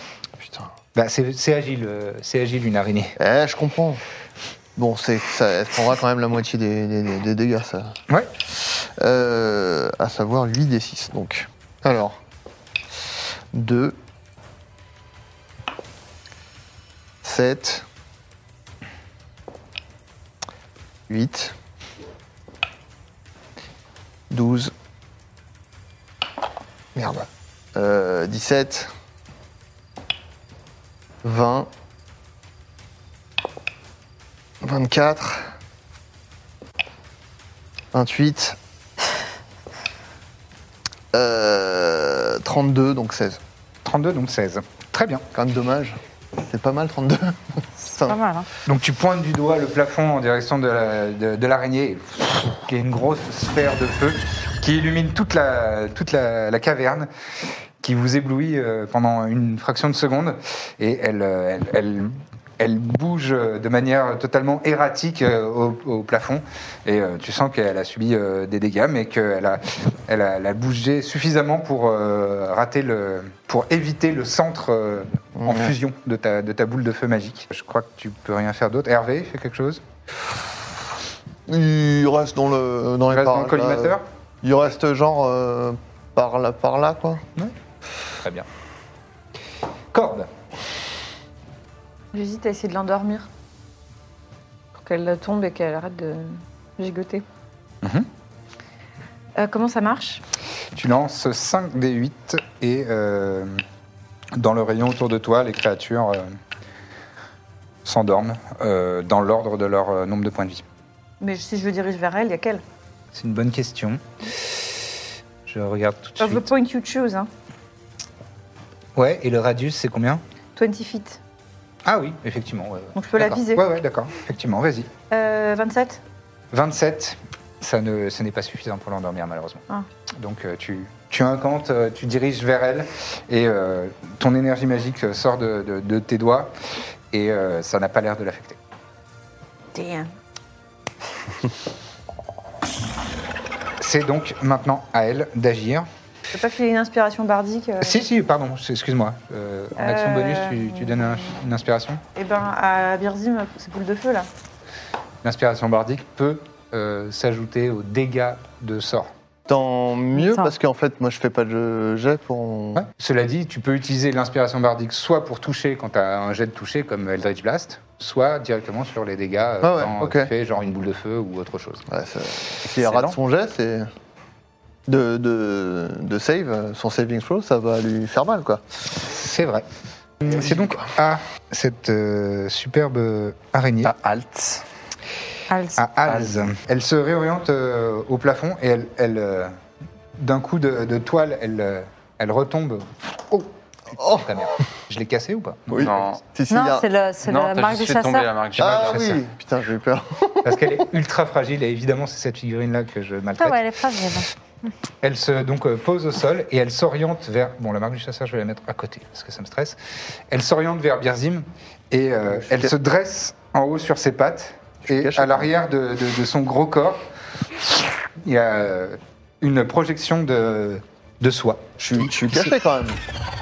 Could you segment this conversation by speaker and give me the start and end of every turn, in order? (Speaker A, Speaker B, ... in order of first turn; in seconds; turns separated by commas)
Speaker A: 0.4-0.7, Speaker B: 0.9-3.1, Speaker A: 3.2-4.0, Speaker A: 4.8-8.0, Speaker A: 8.5-12.2, Speaker A: 13.5-14.0, Speaker A: 17.2-17.9, Speaker A: 21.1-21.6, Speaker A: 24.3-24.7, Speaker A: 26.9-28.9, Speaker A: 31.2-31.7, Speaker A: 34.6-35.5, Speaker A: 37.9-38.6, Speaker A: 41.1-43.4, Speaker B: 43.8-45.2, Speaker A: 45.3-48.2, Speaker C: 47.9-48.5, Speaker B: 48.6-57.1, Speaker B: 57.8-79.8, Speaker A: 75.4-75.7, Speaker A: 81.5-87.2, Speaker B: 83.1-84.0, Speaker B: 88.2-88.5, Speaker B: 89.9-90.3, Speaker D: 92.1-93.3, Speaker D: 94.8-97.2, Speaker B: 97.8-98.1, Speaker D: 99.4-100.2, Speaker B: 100.8-103.6, Speaker B: 104.3-106.3, Speaker B: 107.8-110.6, Speaker D: 111.2-112.6, Speaker B: 113.1-114.7, Speaker B: 115.5-116.5, Speaker D: 116.2-117.3, Speaker B: 119.0-120.2, Speaker D: 120.5-121.2, Speaker B: 121.8-124.9, Speaker D: 123.0-123.6, Speaker D: 125.1-126.0, Speaker B: 126.5-129.6, Speaker B: 130.2-136.5, Speaker B: 137.1-138.6, Speaker D: 139.7-140.1, Speaker B: 143.8-145.9, Speaker D: 146.3-148.0, Speaker B: 147.8-152.0, Speaker D: 149.8-151.1, Speaker D: 152.2-154.3, Speaker B: 155.2-159.1, Speaker A: 159.4-162.8, Speaker C: 160.2-160.5, Speaker B: 162.8-171.8, Speaker A: 169.6-170.3, Speaker A: 171.9-173.9, Speaker E: 172.7-173.2, Speaker A: 174.9-178.6, Speaker B: 179.0-179.7, Speaker B: 180.2-183.9, Speaker A: 180.2-180.8, Speaker E: 183.8-184.6, Speaker C: 185.5-185.8, Speaker B: 185.8-189.5, Speaker E: 186.1-186.5, Speaker B: 190.2-196.0, Speaker A: 194.0-194.5, Speaker A: 195.7-196.9, Speaker E: 195.8-196.2, Speaker C: 196.5-198.3, Speaker E: 197.2-199.2, Speaker A: 198.6-200.8, Speaker B: 200.4-203.6, Speaker C: 203.4-204.3, Speaker B: 205.0-209.8, Speaker B: 210.3-217.1, Speaker A: 212.2-212.8, Speaker A: 214.8-215.5, Speaker B: 217.7-222.5, Speaker A: 221.8-223.0